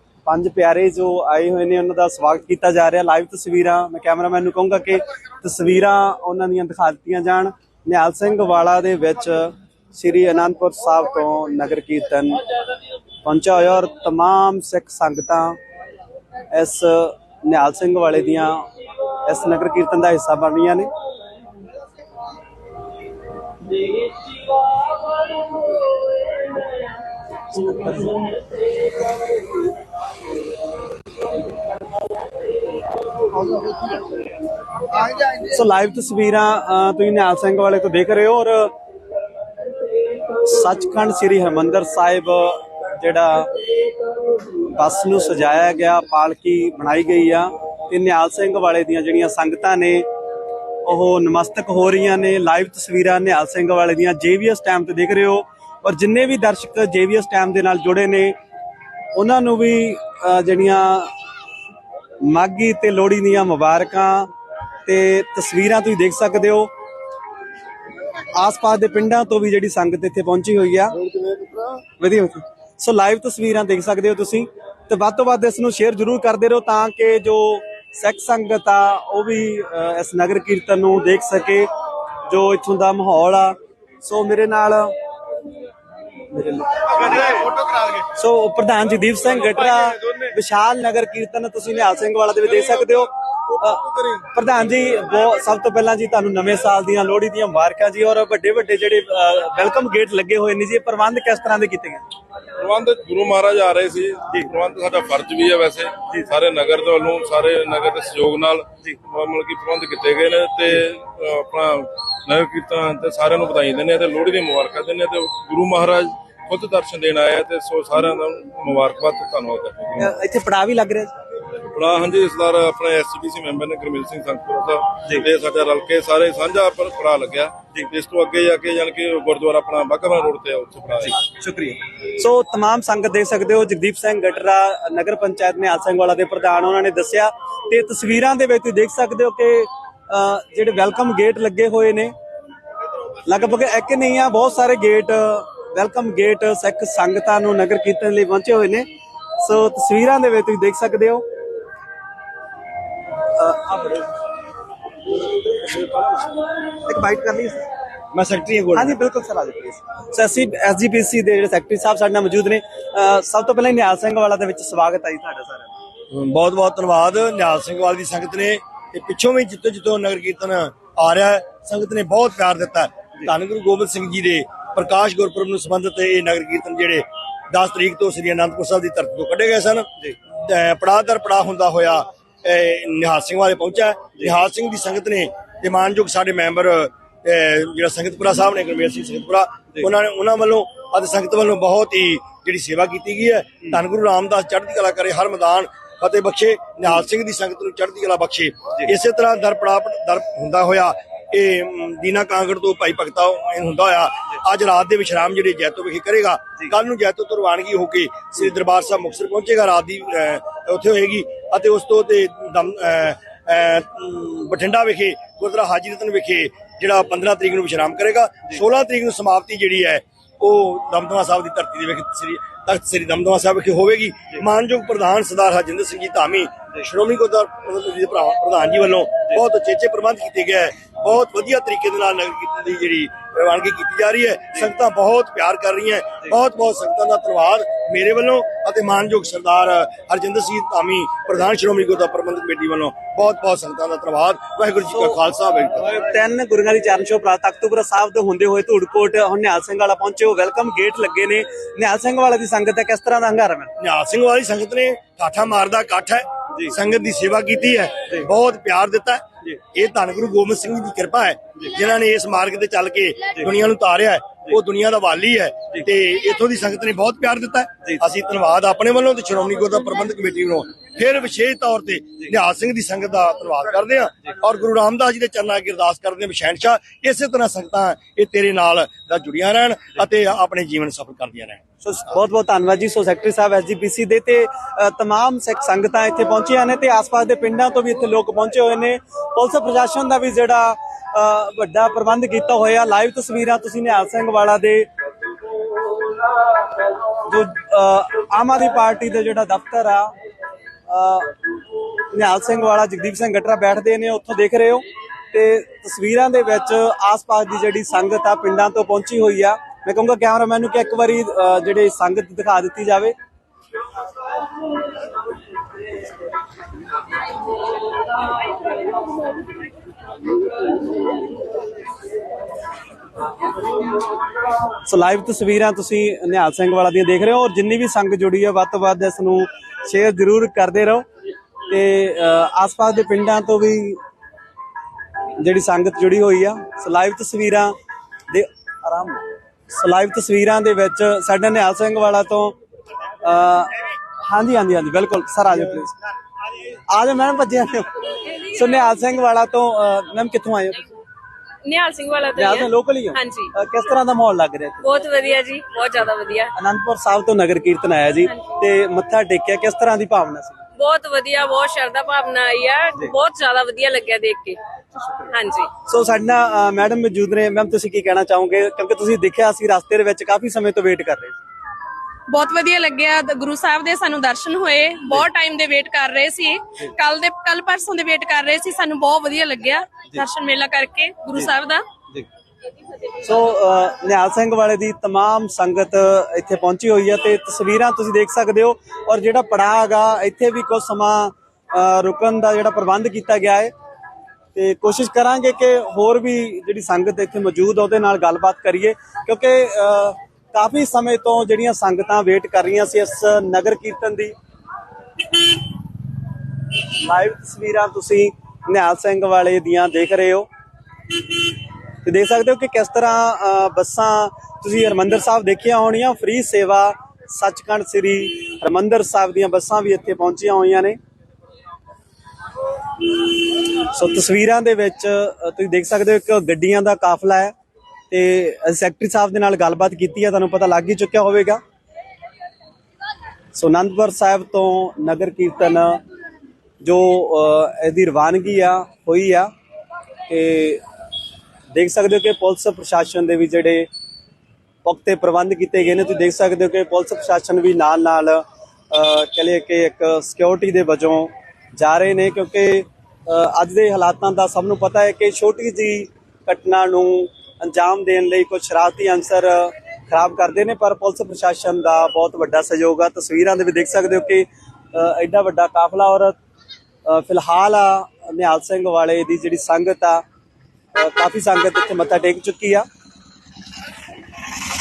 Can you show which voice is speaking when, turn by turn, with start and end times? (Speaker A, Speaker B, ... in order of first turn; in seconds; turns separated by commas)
Speaker A: 0.2-12.4, Speaker A: 13.2-15.6, Speaker A: 16.5-18.6, Speaker A: 19.2-20.9, Speaker A: 27.5-28.3, Speaker A: 35.2-38.7, Speaker A: 40.4-43.5, Speaker A: 44.7-50.0, Speaker A: 50.8-58.3, Speaker A: 59.1-61.1, Speaker A: 62.2-64.3, Speaker A: 64.8-66.7, Speaker A: 68.3-71.0, Speaker A: 72.0-81.7, Speaker A: 82.3-84.9, Speaker A: 86.3-87.5, Speaker A: 88.1-102.0, Speaker B: 102.6-120.0, Speaker A: 120.0-121.1, Speaker B: 121.7-131.1, Speaker A: 131.0-142.1, Speaker A: 143.2-148.8, Speaker A: 149.4-151.2, Speaker A: 153.4-154.1, Speaker A: 155.7-156.0, Speaker A: 156.8-157.7, Speaker C: 158.1-158.9, Speaker A: 158.7-165.7, Speaker C: 166.1-246.0, Speaker A: 244.9-245.2, Speaker A: 245.8-253.7, Speaker C: 253.8-281.6, Speaker A: 281.8-294.9, Speaker A: 297.1-300.1, Speaker A: 300.9-301.3, Speaker A: 302.1-313.1, Speaker A: 324.8-331.1, Speaker A: 331.7-334.0, Speaker A: 335.4-337.7, Speaker A: 338.3-342.5, Speaker A: 343.2-345.9, Speaker A: 346.9-350.9, Speaker D: 351.6-353.5, Speaker A: 352.4-355.0, Speaker D: 354.8-356.5, Speaker A: 356.6-360.6, Speaker D: 360.8-364.6, Speaker D: 365.3-365.7, Speaker A: 365.9-371.4, Speaker E: 372.3-381.8, Speaker A: 383.2-393.7, Speaker A: 394.5-404.3, Speaker A: 407.0-410.5, Speaker A: 412.0-421.0, Speaker A: 423.7-427.5, Speaker A: 428.1-431.6, Speaker A: 433.5-436.0, Speaker A: 436.8-439.5, Speaker A: 440.3-440.8, Speaker A: 441.7-443.9, Speaker A: 444.8-466.4, Speaker A: 467.1-470.2, Speaker A: 470.9-472.9